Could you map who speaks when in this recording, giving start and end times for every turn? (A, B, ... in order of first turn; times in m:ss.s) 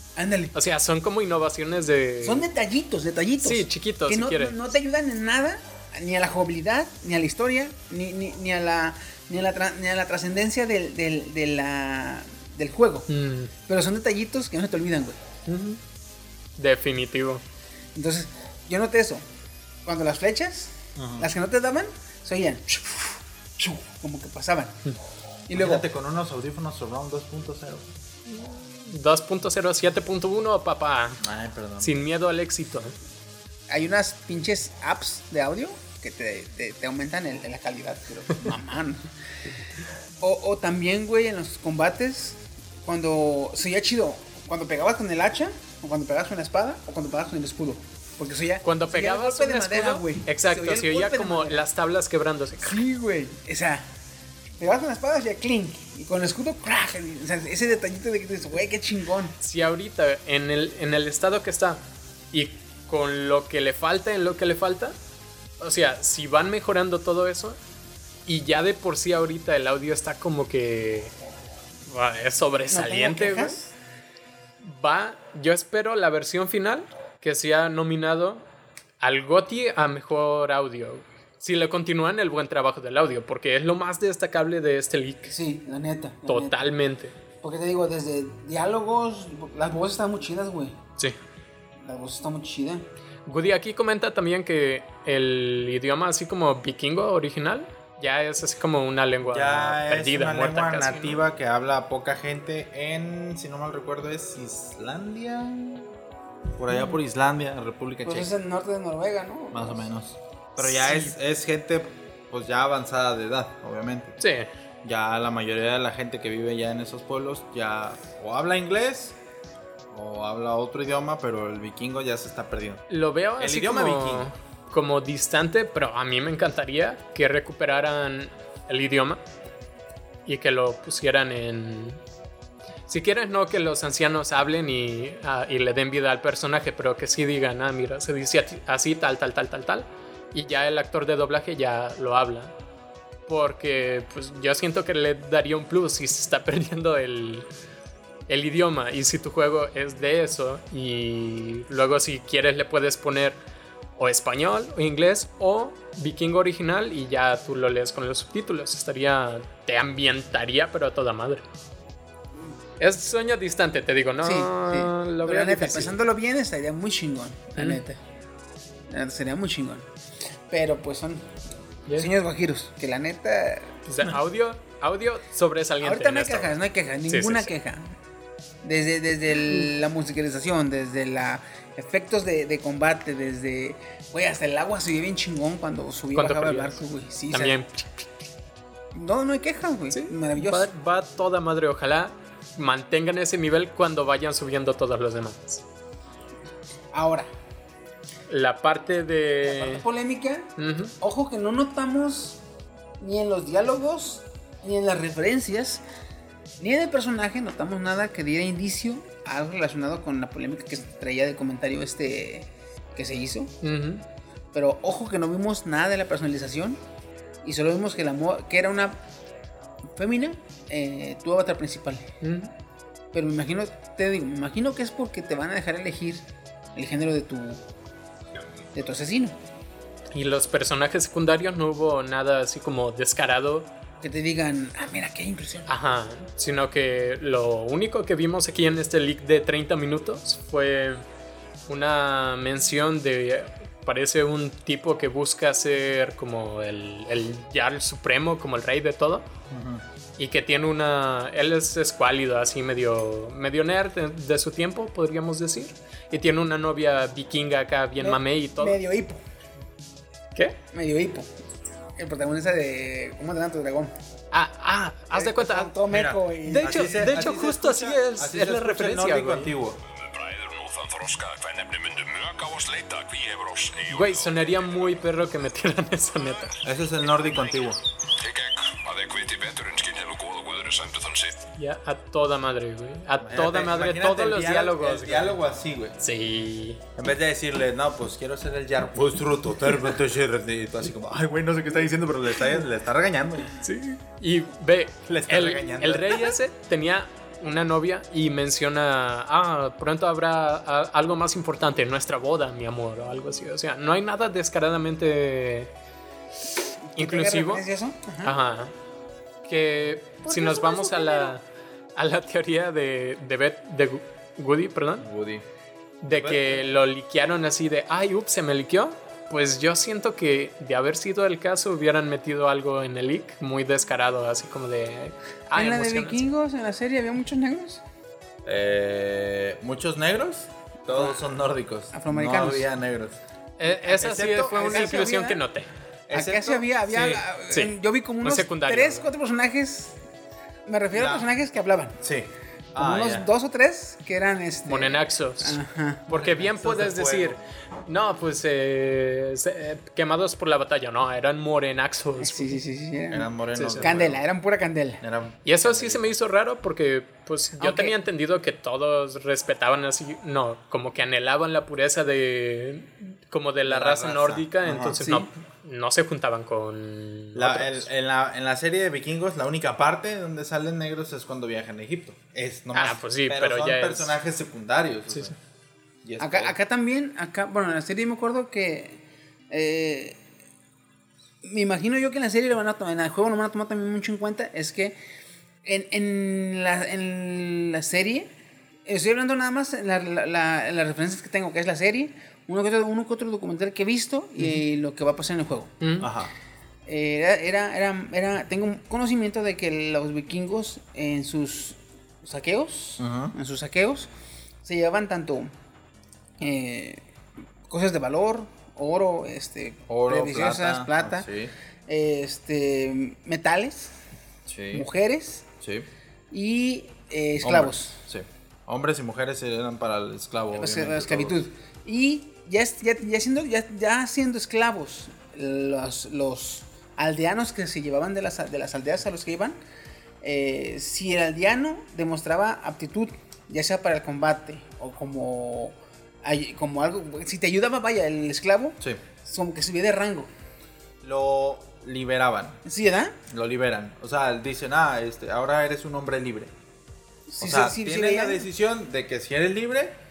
0:00.2-0:00.5 A
0:00.5-0:02.5 B
0:02.2-0:13.1 A
0:03.4-0:04.7 B
0:13.1-0:13.5 B
0:13.7-0:15.2 A
0:15.5-0:15.8 B
0:16.6-0:17.4 B
0:18.0-0:19.2 A
0:19.8-0:23.0 A
0:21.0-0:21.3 C
0:23.6-0:24.8 A
0:25.5-0:25.8 A
0:25.5-0:27.9 C
0:28.3-0:31.2 B
0:31.2-0:32.0 C
0:31.8-0:33.0 B
0:33.7-0:39.1 A
0:40.2-0:51.7 A
0:48.6-0:52.8 B
0:52.6-0:53.9 A
0:54.6-0:59.4 A
0:59.4-1:01.8 B
1:02.3-1:05.0 B
1:05.6-1:07.6 B
1:08.3-1:11.1 B
1:11.9-1:13.6 B
1:12.7-1:13.7 A
1:14.6-1:18.4 B
1:19.0-1:25.3 B
1:25.3-1:26.6 A
1:26.3-1:27.1 B
1:27.4-1:30.8 A
1:31.8-1:32.8 A
1:33.3-1:41.2 B
1:39.3-1:45.9 C
1:46.6-1:48.3 C
1:48.0-1:49.9 A
1:49.5-1:54.2 C
1:50.6-1:51.1 B
1:54.2-1:54.5 B
1:54.8-1:59.2 C
1:59.9-2:02.8 C
2:02.9-2:09.2 B
2:03.4-2:04.3 C
2:10.3-2:12.0 B
2:12.9-2:22.5 B
2:23.3-2:27.5 B
2:28.3-2:33.4 B
2:34.0-2:41.4 B
2:42.8-2:46.0 B
2:44.2-2:48.0 A
2:47.6-2:47.8 B
2:48.9-2:49.9 A
2:50.5-2:51.3 A
2:52.0-2:53.8 A
2:53.9-2:56.5 B
2:55.8-2:57.9 A
2:57.1-2:57.5 B
2:58.6-3:07.6 A
3:06.2-3:06.7 B
3:07.3-3:08.1 B
3:08.9-3:10.7 A
3:09.9-3:15.6 B
3:16.9-3:17.3 A
3:18.3-3:19.8 B
3:19.5-3:22.4 A
3:20.6-3:20.9 B
3:23.0-3:25.8 A
3:26.6-3:33.6 A
3:33.6-3:34.0 B
3:34.5-3:36.8 A
3:37.4-3:39.0 A
3:39.9-3:42.1 A
3:42.2-3:42.5 B
3:43.1-3:47.6 A
3:48.7-3:49.4 A
3:50.1-3:53.7 B
3:54.0-3:55.7 A
3:55.7-4:01.0 B
4:01.7-4:09.3 B
4:09.5-4:09.8 C
4:10.2-4:18.8 B
4:18.0-4:19.2 A
4:20.7-4:21.3 A
4:22.0-4:23.9 A
4:24.3-4:25.8 B
4:25.1-4:27.0 A
4:25.9-4:29.8 C
4:26.4-4:29.5 B
4:30.0-4:34.9 D
4:33.9-4:36.6 B
4:36.6-4:37.8 C
4:38.2-4:41.5 D
4:41.6-4:45.4 B
4:43.2-4:46.0 C
4:46.0-4:46.8 B
4:47.0-4:53.6 C
4:53.6-5:05.7 B
4:55.1-4:56.4 C
5:07.0-5:08.3 A
5:07.0-5:07.6 B
5:08.2-5:08.7 B
5:09.4-5:11.4 B
5:10.2-5:11.3 A
5:12.0-5:15.1 B
5:15.0-5:15.4 C
5:16.0-5:26.3 B
5:16.1-5:16.6 C
5:25.6-5:27.8 A
5:28.5-5:33.2 C
5:31.0-5:31.2 A
5:31.9-5:32.7 A
5:33.6-5:35.7 B
5:33.7-5:34.9 C
5:34.5-5:35.4 A
5:36.1-5:36.7 C
5:36.1-5:40.0 A
5:36.9-5:39.1 B
5:40.7-5:42.0 A
5:40.9-5:41.3 C
5:42.0-5:43.3 C
5:42.8-5:46.1 A
5:44.7-5:52.6 B
5:46.1-5:47.4 C
5:52.2-5:53.3 A
5:53.1-5:54.2 C
5:53.6-5:53.9 B
5:53.8-5:55.0 A
5:55.0-5:56.1 C
5:55.4-6:07.9 B
5:57.6-5:58.0 A
6:03.7-6:05.1 C
6:05.0-6:05.3 A
6:07.4-6:15.4 C
6:12.7-6:14.2 B
6:16.0-6:16.5 C
6:16.2-6:20.2 A
6:21.4-6:25.0 A
6:25.6-6:28.3 A
6:28.9-6:35.7 A
6:35.8-6:36.1 B
6:36.0-6:36.3 C
6:36.9-6:44.1 A
6:43.0-6:43.3 C
6:44.6-6:45.5 A
6:46.4-6:47.0 A
6:47.7-6:51.3 A
6:49.9-6:51.5 C
6:51.9-6:54.0 A
6:54.5-6:54.9 C
6:54.7-6:55.5 A
6:55.6-6:55.9 C
6:56.3-6:58.0 A
6:57.4-7:01.4 C
7:00.6-7:09.6 A
7:10.2-7:20.3 A
7:21.0-7:22.6 C
7:22.6-7:23.2 A
7:23.3-7:26.5 C
7:27.3-7:28.4 A
7:27.4-7:30.0 C